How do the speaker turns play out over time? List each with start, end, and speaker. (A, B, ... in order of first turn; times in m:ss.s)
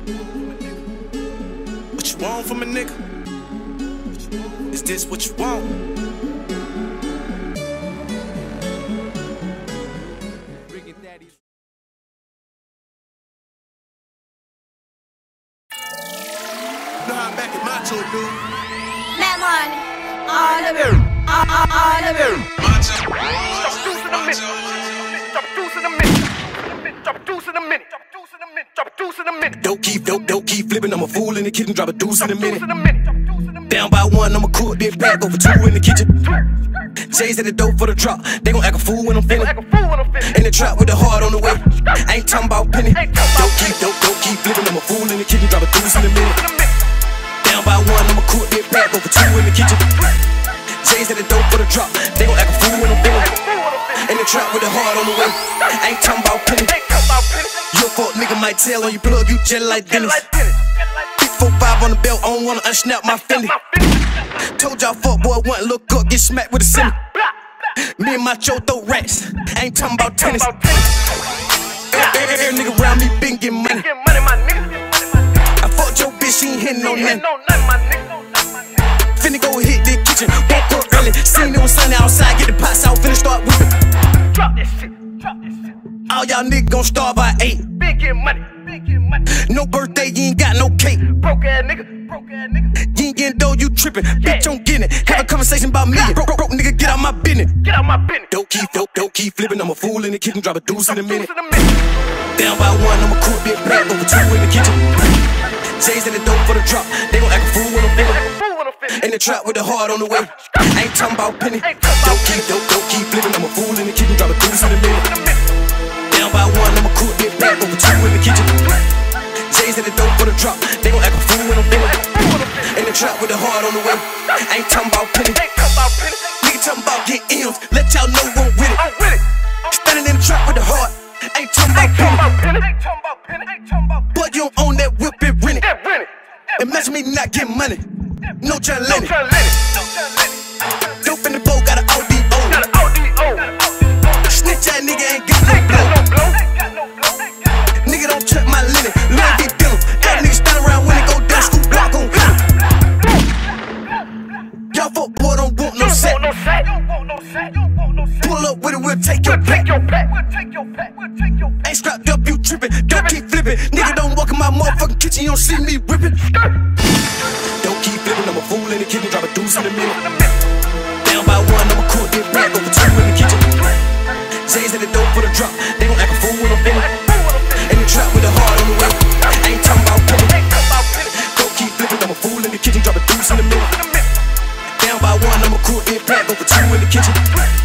0:02.0-0:03.0 A
0:04.6-0:05.8 A
0:17.0-0:18.4 A
0:19.1-0:22.6 B
0:23.4-0:29.5 C
0:29.5-0:32.8 A
0:32.4-0:33.3 C
0:33.6-0:36.4 A
0:37.0-0:39.6 A
0:39.5-0:40.4 C
0:40.2-0:46.4 A
0:43.0-0:43.6 C
0:46.4-0:46.8 C
0:47.4-0:50.0 A
0:50.8-0:56.8 A
0:53.3-0:54.0 C
0:56.8-0:57.6 C
0:57.6-1:00.4 A
1:00.0-1:00.7 C
1:01.2-1:03.6 A
1:03.3-1:04.3 C
1:04.3-1:07.0 A
1:07.6-1:10.7 A
1:10.1-1:11.0 C
1:11.9-1:13.9 A
1:13.7-1:15.5 C
1:15.6-1:17.2 A
1:17.1-1:18.7 C
1:19.1-1:23.8 A
1:24.3-1:25.3 C
1:26.1-1:27.8 A
1:27.7-1:29.2 C
1:29.2-1:31.2 A
1:31.1-1:32.7 C
1:32.7-1:37.6 A
1:37.6-1:38.3 C
1:38.3-1:41.3 A
1:41.0-1:41.8 C
1:42.4-1:44.9 A
1:45.7-1:48.4 A
1:48.2-1:49.0 C
1:48.9-1:55.1 A
1:51.7-1:52.4 C
1:55.1-1:55.4 C
1:56.1-1:58.6 A
1:59.5-2:05.6 A
2:02.0-2:02.7 C
2:05.4-2:06.3 C
2:06.3-2:09.0 A
2:08.8-2:09.3 C
2:09.6-2:12.4 A
2:11.9-2:13.9 C
2:14.0-2:15.8 A
2:15.7-2:16.2 C
2:16.6-2:19.3 A
2:19.0-2:20.4 C
2:21.0-2:22.7 A
2:22.6-2:23.9 C
2:24.2-2:26.0 A
2:25.7-2:27.4 C
2:27.7-2:32.4 A
2:32.8-2:33.3 C
2:34.7-2:36.4 A
2:35.9-2:38.0 C
2:38.1-2:39.8 A
2:39.3-2:41.3 C
2:41.5-2:46.4 A
2:47.4-2:50.0 A
2:49.9-2:50.3 C
2:51.0-2:53.5 A
2:54.4-3:00.5 A
2:56.9-2:57.6 C
3:00.4-3:01.2 C
3:01.1-3:03.8 A
3:04.8-3:07.4 A